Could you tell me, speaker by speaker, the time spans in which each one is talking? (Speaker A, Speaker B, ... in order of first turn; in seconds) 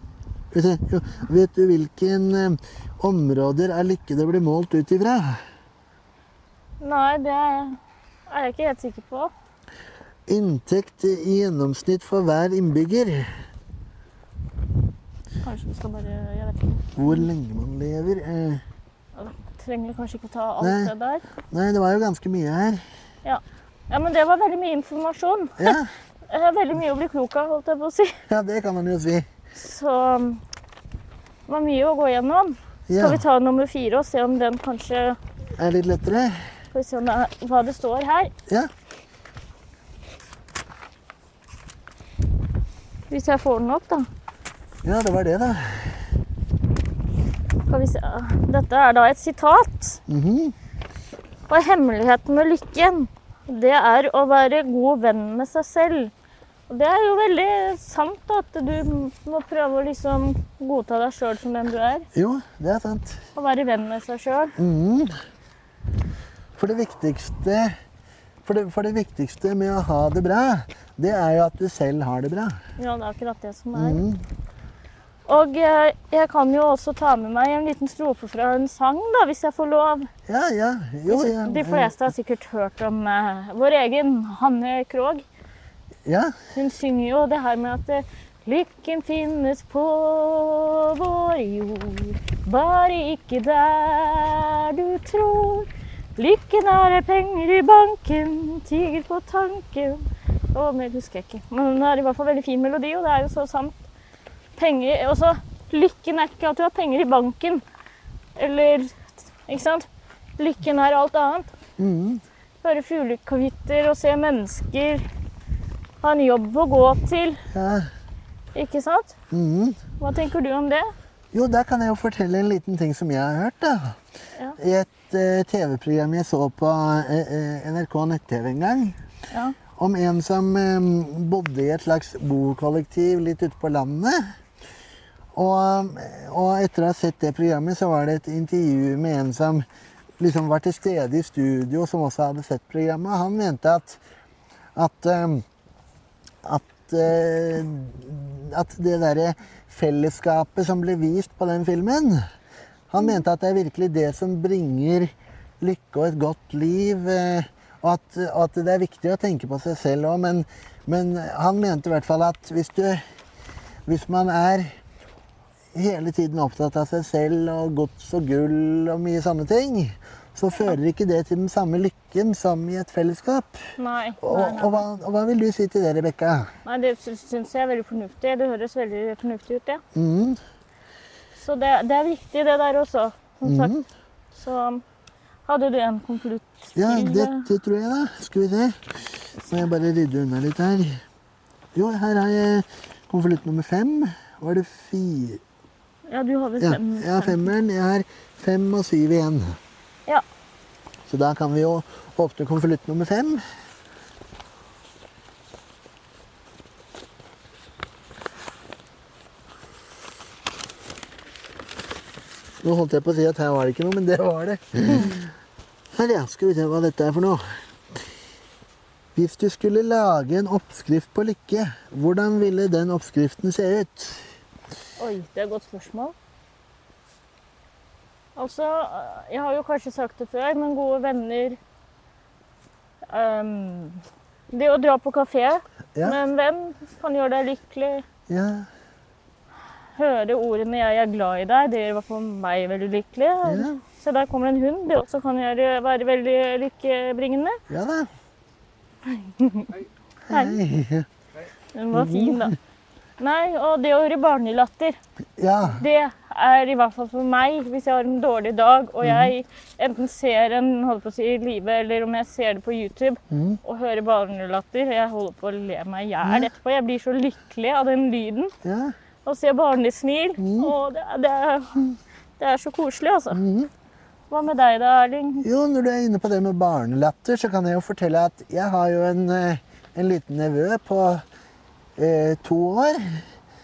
Speaker A: 0.5-5.4, 10.3-13.3, 17.0-18.6, 20.6-20.9, 21.5-22.8, 25.6-25.9, 28.3-29.3, 32.9-33.2, 35.6-36.5, 44.8-46.0, 50.1-50.5, 62.1-63.2, 64.6-65.2, 66.6-67.8, 68.4-72.6, 73.8-74.2, 80.3-82.0, 86.1-86.4, 111.8-112.2, 117.5-117.9, 119.3-119.8, 121.3-124.0, 124.6-129.0, 129.8-134.3, 135.3-139.7, 140.2-144.0, 144.8-145.4, 146.4-152.2, 152.9-163.0, 163.9-164.7, 165.7-173.7, 174.2-176.5, 179.9-180.4, 183.4-183.9, 186.8-191.0, 191.8-195.4, 196.6-199.6, 201.1-203.4, 212.6-215.3, 215.9-217.6, 219.2-224.3, 238.3-238.7, 243.4-243.8, 247.7-248.1, 250.3-251.1, 251.9-252.5, 255.4-255.8, 259.0-259.3, 263.3-263.6, 266.2-266.5, 268.6-268.9, 270.4-270.7, 273.3-273.7, 275.4-281.2, 282.0-283.3
Speaker B: 6.8-7.8, 8.3-9.3, 15.4-17.3, 19.2-21.2, 23.2-28.2, 29.6-30.4, 31.5-35.2, 36.7-38.3, 43.1-44.1, 47.7-50.0, 51.5-56.1, 56.7-62.1, 63.4-64.6, 72.8-74.0, 75.3-80.1, 81.1-85.2, 86.5-103.8, 104.6-107.6, 108.4-109.9, 110.4-111.5, 112.6-115.0, 116.0-117.4, 118.5-119.2, 120.0-120.9, 173.8-174.8, 176.7-179.8, 181.4-183.7, 184.4-184.8, 185.5-187.5, 196.1-197.5, 225.0-226.2, 228.4-231.6, 233.1-238.1, 239.9-247.6, 249.1-249.8, 250.3-250.6, 251.7-252.6, 253.2-255.0, 255.6-268.5, 269.2-273.4, 274.3-275.5